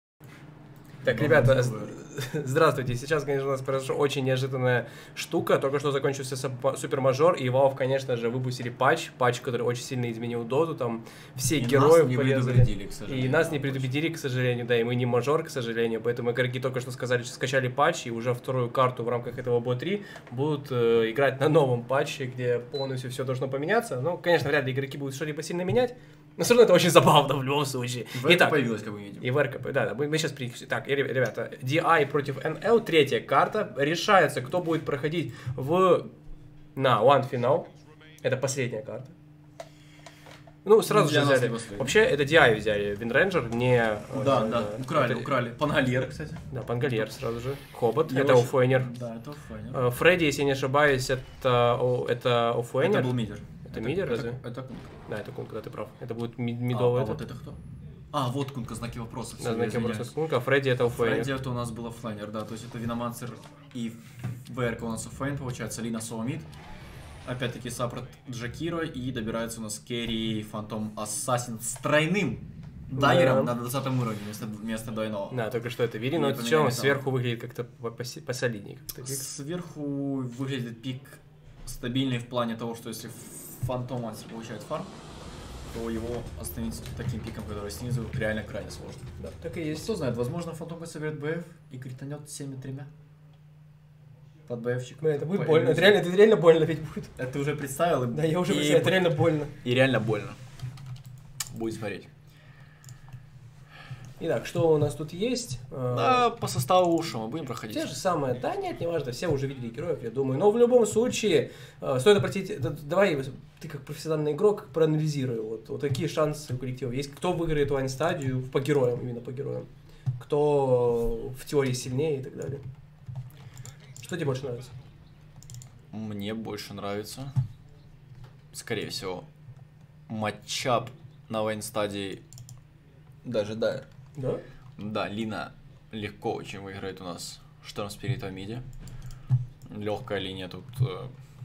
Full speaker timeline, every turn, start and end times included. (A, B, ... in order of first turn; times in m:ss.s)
0:01.0-0:01.9 A
0:01.0-0:28.6 B
0:11.5-0:13.9 A
0:28.1-0:29.3 A
0:29.2-0:36.1 B
0:36.8-0:37.7 B
0:38.2-0:39.1 B
0:40.6-0:45.3 B
0:40.8-0:42.0 A
0:44.1-0:47.0 A
0:46.5-0:48.9 B
0:48.1-0:49.8 A
0:49.7-0:53.2 B
0:52.8-0:54.9 A
0:53.7-0:54.4 B
0:55.1-0:57.2 B
0:56.7-0:57.6 A
0:58.1-1:00.1 A
0:59.4-1:01.3 B
1:00.8-1:06.5 A
1:07.2-1:15.4 A
1:12.9-1:13.5 B
1:15.3-1:19.2 B
1:16.1-1:17.0 A
1:19.0-1:24.9 A
1:25.7-1:29.1 A
1:29.2-1:30.0 B
1:29.7-1:32.9 A
1:34.5-1:36.0 A
1:35.0-1:37.1 B
1:37.2-1:40.4 A
1:38.1-1:39.5 B
1:41.5-1:42.1 A
1:44.2-1:46.2 B
1:45.9-1:48.0 A
1:47.7-1:59.7 B
2:00.2-2:02.6 B
2:04.0-2:04.7 B
2:05.9-2:07.3 A
2:08.5-2:09.2 A
2:10.1-2:12.2 A
2:13.2-2:13.9 A
2:14.2-2:14.4 B
2:14.8-2:18.6 A
2:19.7-2:21.1 A